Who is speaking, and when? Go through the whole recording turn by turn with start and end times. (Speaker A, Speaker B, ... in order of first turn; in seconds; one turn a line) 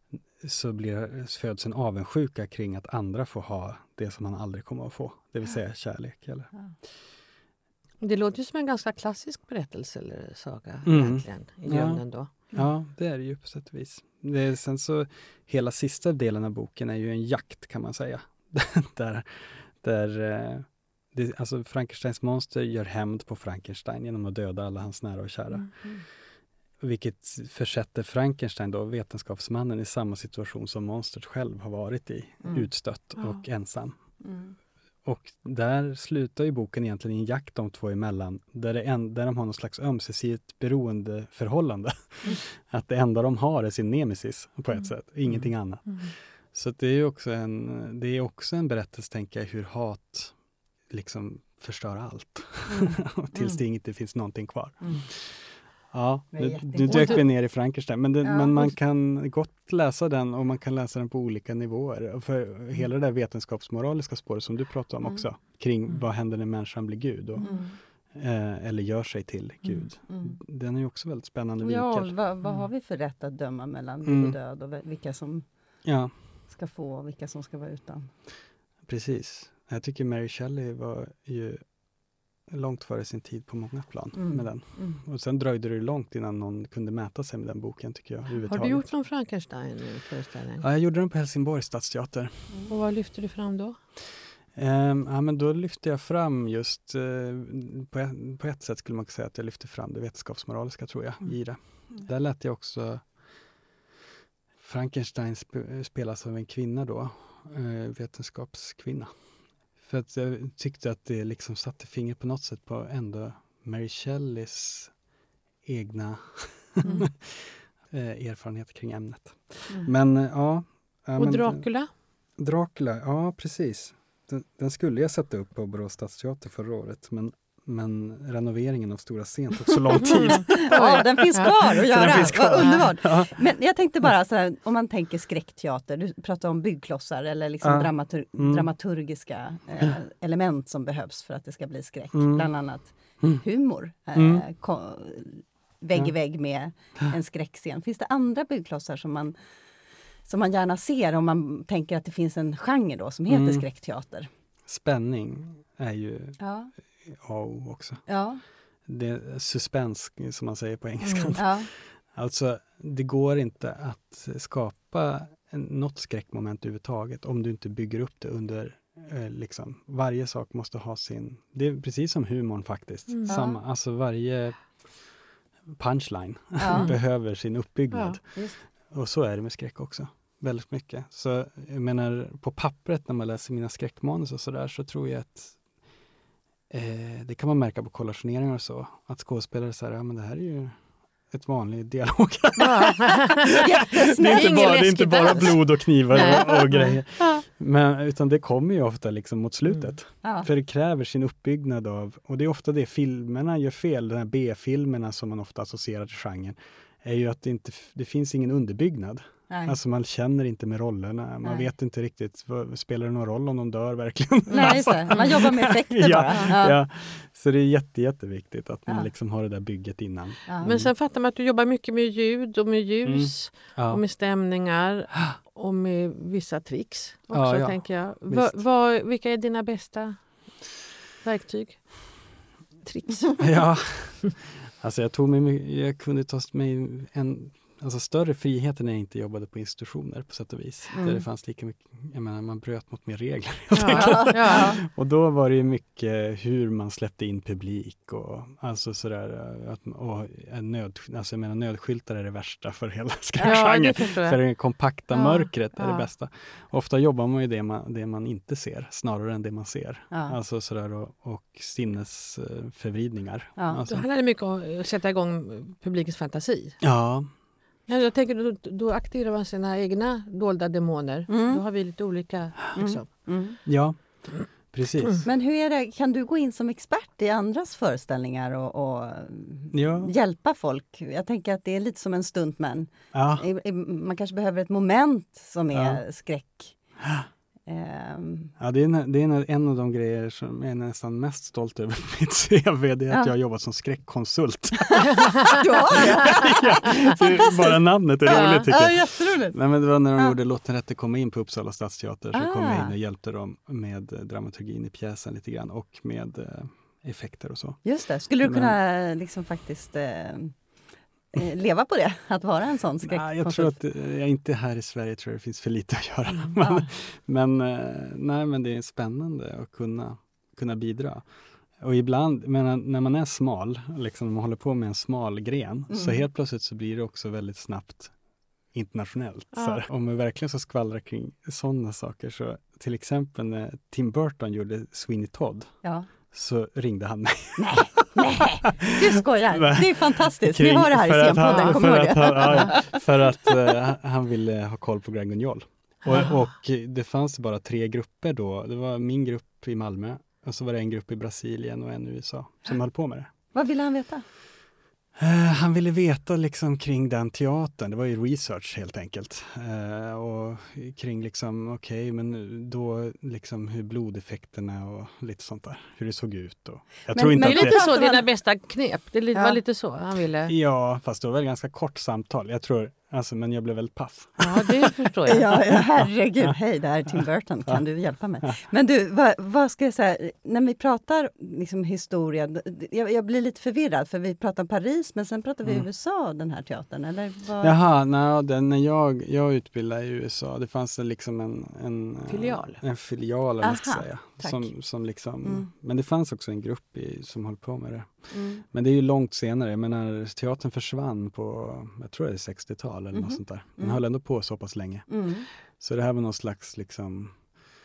Speaker A: 0.4-6.5
Speaker B: 8.0-12.5
Speaker A: 10.8-26.0
Speaker A: 26.8-34.0
Speaker B: 33.2-33.4
Speaker C: 34.2-34.5
Speaker A: 35.0-50.3
Speaker B: 45.8-46.1
Speaker A: 50.9-72.1
Speaker C: 52.7-53.0
Speaker C: 56.3-57.2
Speaker B: 56.9-57.2
Speaker C: 58.2-58.7
Speaker C: 67.4-67.8
Speaker C: 70.1-70.4
Speaker C: 71.6-75.5
Speaker A: 74.0-74.3
Speaker A: 75.8-76.1
Speaker C: 76.5-78.1
Speaker A: 78.8-81.7
Speaker A: 82.5-88.9
Speaker C: 84.1-85.0
Speaker B: 88.5-90.6
Speaker A: 90.6-92.6
Speaker B: 92.7-93.8
Speaker A: 94.5-103.3
Speaker A: 104.6-109.1
Speaker A: 109.8-115.0
Speaker A: 115.6-121.7
Speaker B: 121.2-121.9
Speaker A: 122.4-133.4
Speaker B: 130.0-132.8
Speaker C: 130.0-149.3
Speaker A: 137.6-138.7
Speaker A: 142.1-142.5
Speaker A: 144.1-144.4
Speaker C: 150.2-154.3
Speaker A: 153.3-153.7
Speaker A: 154.7-156.4
Speaker C: 156.4-156.7
Speaker A: 157.0-158.1
Speaker C: 158.1-158.4
Speaker A: 158.8-175.2
Speaker B: 161.0-161.4
Speaker C: 161.3-161.7
Speaker B: 173.1-173.4
Speaker C: 173.3-173.6
Speaker A: 175.8-185.6
Speaker C: 176.6-176.9
Speaker B: 177.9-178.2
Speaker C: 178.3-178.6
Speaker A: 186.7-190.8
Speaker A: 191.3-220.9
Speaker B: 192.6-196.9
Speaker C: 193.6-194.7
Speaker C: 196.1-196.9
Speaker C: 200.2-200.5
Speaker C: 209.5-209.8
Speaker C: 214.5-216.8
Speaker C: 220.5-220.8
Speaker B: 220.6-230.6
Speaker A: 223.0-224.0
Speaker A: 227.3-228.6
Speaker B: 231.2-233.6
Speaker A: 233.4-264.1
Speaker C: 240.9-241.2
Speaker B: 243.7-244.7
Speaker C: 243.9-244.8
Speaker B: 253.4-254.4
Speaker C: 255.1-256.0
Speaker C: 260.1-260.4
Speaker C: 263.6-263.8
Speaker B: 263.9-266.8
Speaker A: 266.8-267.3
Speaker B: 267.9-273.3
Speaker C: 271.3-271.6
Speaker C: 272.7-273.6
Speaker A: 273.6-275.2
Speaker C: 275.2-286.8
Speaker A: 279.7-280.1
Speaker A: 283.1-283.4
Speaker A: 285.7-286.0
Speaker C: 287.7-288.5
Speaker A: 288.6-307.8
Speaker C: 295.5-299.6
Speaker B: 298.3-298.6
Speaker C: 302.3-302.9
Speaker C: 307.8-310.6
Speaker A: 308.4-308.8
Speaker C: 311.3-313.8
Speaker A: 313.0-328.1
Speaker C: 316.6-316.9
Speaker C: 325.9-326.2
Speaker A: 328.7-338.1
Speaker B: 329.5-329.8
Speaker C: 335.8-336.1
Speaker C: 337.6-343.0
Speaker A: 339.5-353.3
Speaker C: 353.5-354.3
Speaker A: 355.1-367.8
Speaker C: 367.1-368.2
Speaker B: 367.4-370.5
Speaker C: 369.3-369.6
Speaker A: 370.5-374.9
Speaker B: 374.4-375.7
Speaker C: 375.3-387.7
Speaker A: 376.0-376.6
Speaker A: 377.1-377.8
Speaker A: 387.6-407.6
Speaker B: 392.3-392.8
Speaker C: 393.6-394.7
Speaker C: 398.3-398.6
Speaker C: 403.1-404.0
Speaker C: 405.1-405.5